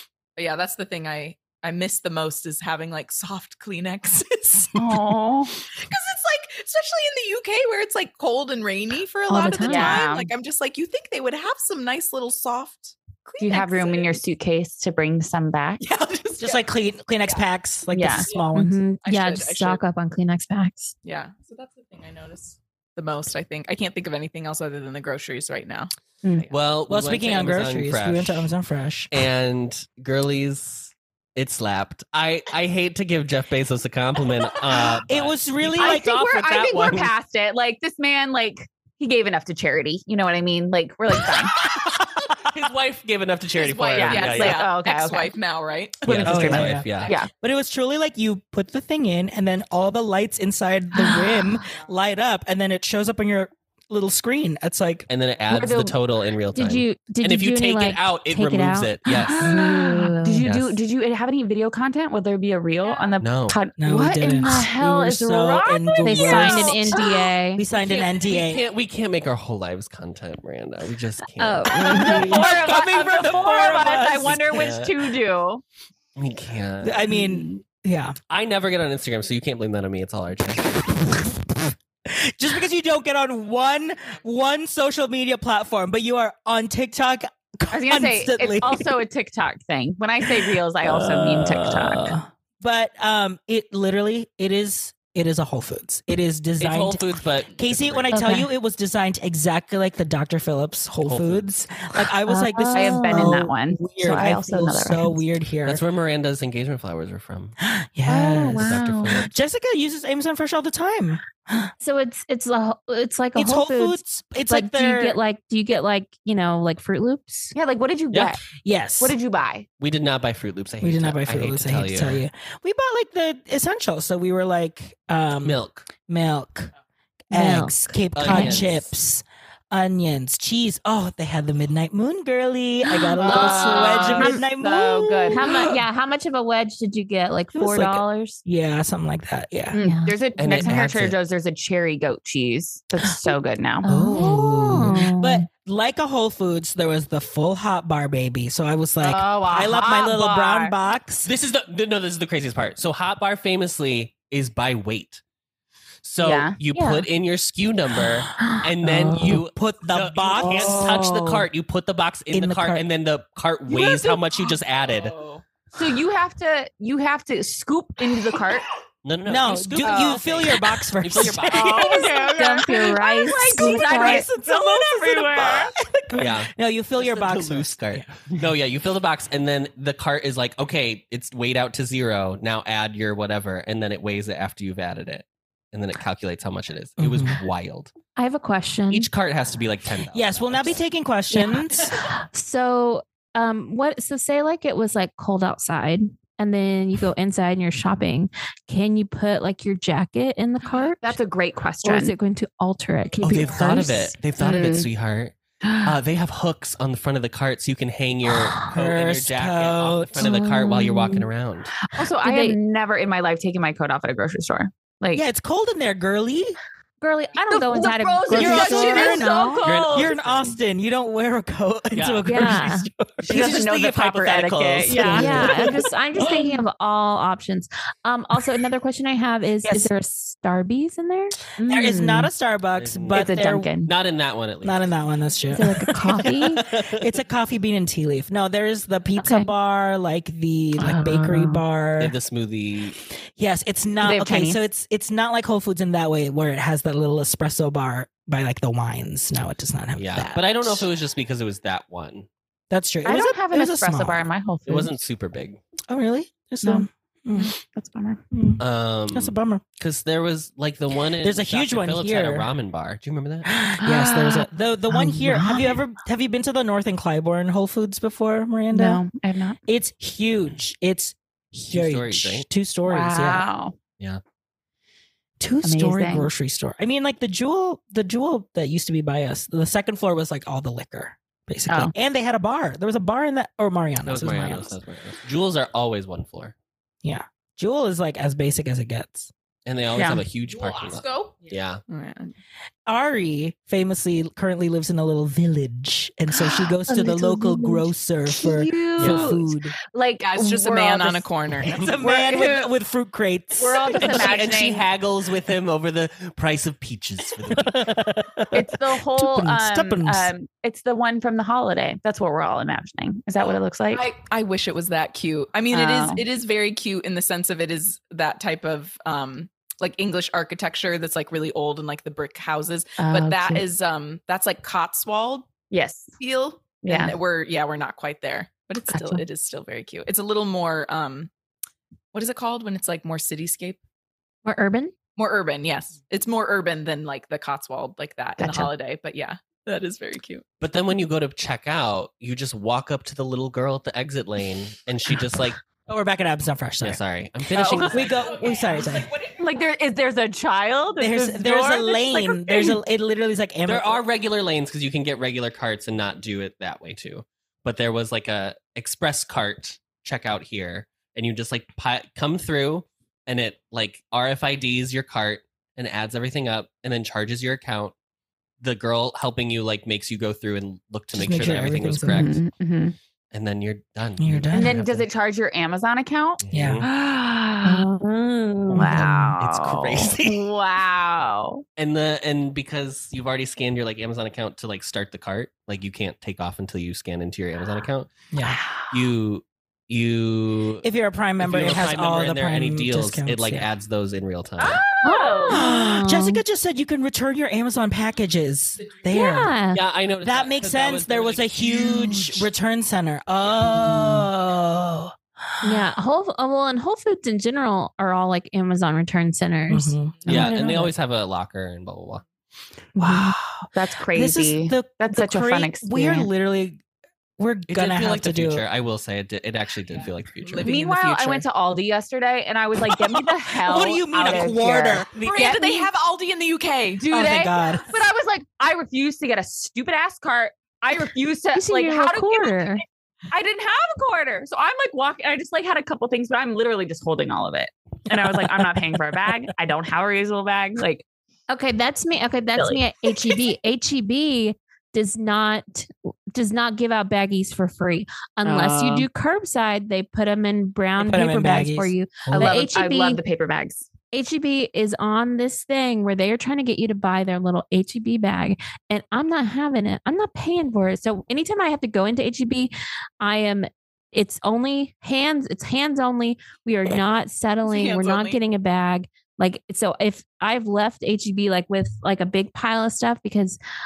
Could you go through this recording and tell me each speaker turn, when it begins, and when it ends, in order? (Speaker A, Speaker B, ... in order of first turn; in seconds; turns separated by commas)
Speaker A: 0.3-4.9, Speaker B: 4.7-5.6, Speaker A: 5.7-14.2, Speaker C: 9.3-10.1, Speaker B: 9.7-10.3, Speaker B: 13.4-15.8, Speaker A: 15.8-16.7, Speaker D: 16.4-18.8, Speaker B: 17.9-18.3, Speaker A: 18.1-18.5, Speaker C: 18.5-20.9, Speaker A: 19.0-19.8, Speaker A: 21.0-26.5, Speaker E: 26.5-28.5, Speaker D: 26.9-29.1, Speaker E: 29.1-37.1, Speaker D: 35.1-37.0, Speaker B: 35.8-41.6, Speaker E: 41.7-44.7, Speaker A: 43.5-47.1, Speaker B: 44.0-45.3, Speaker E: 46.0-47.1, Speaker B: 46.1-47.3, Speaker D: 46.1-55.1, Speaker E: 55.1-59.5, Speaker B: 55.5-56.0, Speaker C: 56.5-60.4, Speaker D: 59.2-60.1, Speaker B: 59.3-67.3, Speaker E: 60.4-60.8, Speaker E: 63.2-63.6, Speaker D: 63.8-67.0, Speaker C: 66.0-67.6, Speaker D: 67.5-68.6, Speaker E: 67.8-72.6, Speaker C: 71.4-72.3, Speaker B: 71.7-75.6, Speaker D: 71.7-74.4, Speaker E: 73.2-74.9, Speaker E: 76.2-77.1, Speaker D: 76.8-78.2, Speaker B: 77.1-77.6, Speaker E: 78.3-80.8, Speaker D: 81.2-89.0, Speaker B: 87.7-92.1, Speaker D: 90.2-105.8, Speaker E: 96.6-98.1, Speaker C: 98.1-98.5, Speaker E: 101.0-101.5, Speaker C: 102.2-103.4, Speaker B: 102.7-105.2, Speaker E: 105.6-107.5, Speaker D: 107.6-111.7, Speaker B: 108.1-109.1, Speaker E: 108.5-109.3, Speaker C: 111.8-117.5, Speaker D: 113.3-115.2, Speaker B: 117.5-118.5, Speaker D: 118.6-119.2, Speaker B: 119.0-119.7, Speaker E: 119.8-122.2, Speaker D: 120.8-126.7, Speaker E: 125.4-125.9, Speaker D: 127.3-135.7, Speaker C: 127.3-128.7, Speaker E: 128.1-128.9, Speaker B: 133.2-135.7, Speaker C: 133.2-134.4, Speaker C: 135.3-138.4, Speaker D: 137.5-139.8, Speaker B: 139.7-143.9, Speaker C: 139.8-140.2, Speaker E: 140.4-141.2, Speaker C: 143.8-145.4, Speaker D: 143.8-151.3, Speaker B: 149.0-150.7, Speaker E: 151.2-155.2, Speaker E: 156.0-165.2, Speaker B: 156.2-156.6, Speaker C: 156.7-157.1, Speaker D: 158.8-161.5, Speaker D: 162.3-162.8, Speaker A: 163.7-165.4, Speaker B: 165.7-168.7, Speaker E: 169.0-172.2, Speaker D: 169.2-172.7, Speaker B: 169.8-170.3, Speaker B: 171.1-175.7, Speaker C: 172.3-174.2, Speaker D: 173.2-178.4, Speaker E: 176.2-187.9, Speaker D: 187.0-187.4, Speaker C: 188.1-189.1, Speaker E: 188.9-190.8, Speaker D: 190.1-191.9, Speaker C: 191.3-201.2, Speaker B: 201.0-202.1, Speaker C: 201.8-204.2, Speaker E: 203.2-211.7, Speaker B: 204.4-204.9, Speaker B: 205.6-205.9, Speaker D: 208.6-210.3, Speaker C: 210.2-211.2, Speaker B: 211.8-215.2, Speaker C: 212.2-212.6, Speaker D: 215.1-216.6, Speaker C: 217.0-219.7, Speaker B: 217.4-220.1, Speaker D: 218.3-223.6, Speaker A: 218.8-219.2, Speaker E: 219.6-220.6, Speaker E: 221.9-222.5, Speaker C: 222.2-222.9, Speaker B: 223.2-225.7, Speaker E: 223.2-225.5, Speaker D: 224.8-225.8, Speaker C: 225.1-231.4, Speaker B: 231.6-232.3, Speaker D: 231.7-233.7, Speaker E: 232.8-235.0, Speaker B: 233.1-233.9, Speaker D: 234.6-242.1, Speaker C: 235.5-236.6, Speaker E: 236.1-237.1, Speaker B: 239.2-239.5, Speaker B: 240.8-241.6, Speaker E: 242.0-243.0, Speaker D: 243.3-250.9, Speaker B: 244.0-244.6, Speaker E: 250.0-252.3, Speaker D: 252.7-254.3, Speaker B: 253.0-254.9, Speaker E: 254.7-255.6, Speaker D: 255.9-257.5, Speaker B: 256.6-258.2, Speaker D: 258.3-259.6, Speaker E: 258.6-263.5, Speaker D: 261.2-262.5, Speaker D: 263.4-269.0, Speaker B: 263.8-265.8, Speaker B: 268.7-269.6, Speaker D: 269.7-273.5, Speaker E: 271.7-272.5, Speaker B: 272.9-273.7, Speaker D: 275.4-284.8, Speaker B: 275.6-276.3, Speaker B: 281.7-281.9, Speaker E: 284.0-286.5, Speaker D: 287.0-289.3, Speaker E: 289.6-291.8, Speaker B: 289.9-290.2, Speaker A: 290.5-292.3, Speaker D: 292.9-299.7, Speaker C: 296.9-297.8, Speaker B: 297.1-297.6, Speaker B: 298.3-301.3, Speaker E: 299.0-299.4, Speaker A: 300.2-301.9, Speaker D: 301.6-304.4, Speaker B: 302.0-302.7, Speaker B: 303.6-304.9, Speaker E: 304.0-307.9, Speaker D: 307.5-310.3, Speaker B: 308.5-314.1, Speaker A: 313.4-325.5, Speaker B: 315.7-316.2, Speaker B: 323.0-323.6, Speaker B: 325.7-326.1, Speaker A: 326.2-331.3, Speaker B: 326.8-327.1, Speaker B: 328.9-329.2, Speaker A: 332.1-333.8, Speaker C: 334.4-334.9, Speaker A: 335.1-340.4, Speaker B: 338.4-338.7, Speaker E: 340.6-345.6, Speaker D: 345.9-347.0, Speaker E: 346.8-348.3, Speaker B: 347.5-348.0, Speaker A: 347.8-349.5, Speaker D: 347.9-349.1, Speaker B: 349.4-352.8, Speaker D: 351.0-354.0, Speaker E: 353.6-367.9, Speaker E: 368.6-372.4, Speaker D: 371.1-372.4, Speaker B: 372.0-372.9, Speaker E: 373.3-375.1, Speaker D: 374.2-374.8, Speaker B: 374.5-377.9, Speaker E: 376.4-376.9, Speaker D: 376.5-376.8, Speaker C: 377.6-379.1, Speaker D: 378.7-379.3, Speaker B: 378.7-381.6, Speaker E: 379.0-380.4, Speaker E: 381.8-388.1, Speaker D: 388.3-388.6, Speaker B: 388.4-389.1, Speaker E: 388.9-390.8, Speaker D: 390.8-393.7, Speaker E: 391.4-394.8, Speaker B: 394.6-395.6, Speaker C: 395.0-396.4, Speaker D: 395.5-399.5, Speaker C: 399.1-399.8, Speaker E: 399.7-402.4, Speaker D: 400.2-405.1, Speaker C: 405.6-410.9, Speaker D: 409.7-410.3, Speaker E: 410.2-412.2, Speaker D: 413.0-416.8, Speaker C: 413.0-413.3, Speaker B: 413.7-416.3, Speaker D: 417.4-418.6, Speaker E: 417.7-420.7, Speaker A: 420.0-421.4, Speaker B: 420.6-425.9, Speaker D: 423.6-425.4, Speaker A: 425.1-427.2, Speaker B: 427.0-441.1, Speaker D: 427.1-427.9, Speaker C: 431.5-432.8, Speaker C: 441.5-453.2, Speaker B: 442.6-443.3, Speaker B: 448.4-449.1, Speaker D: 451.0-452.6, Speaker B: 452.3-453.9, Speaker C: 454.1-473.6, Speaker A: 467.6-468.4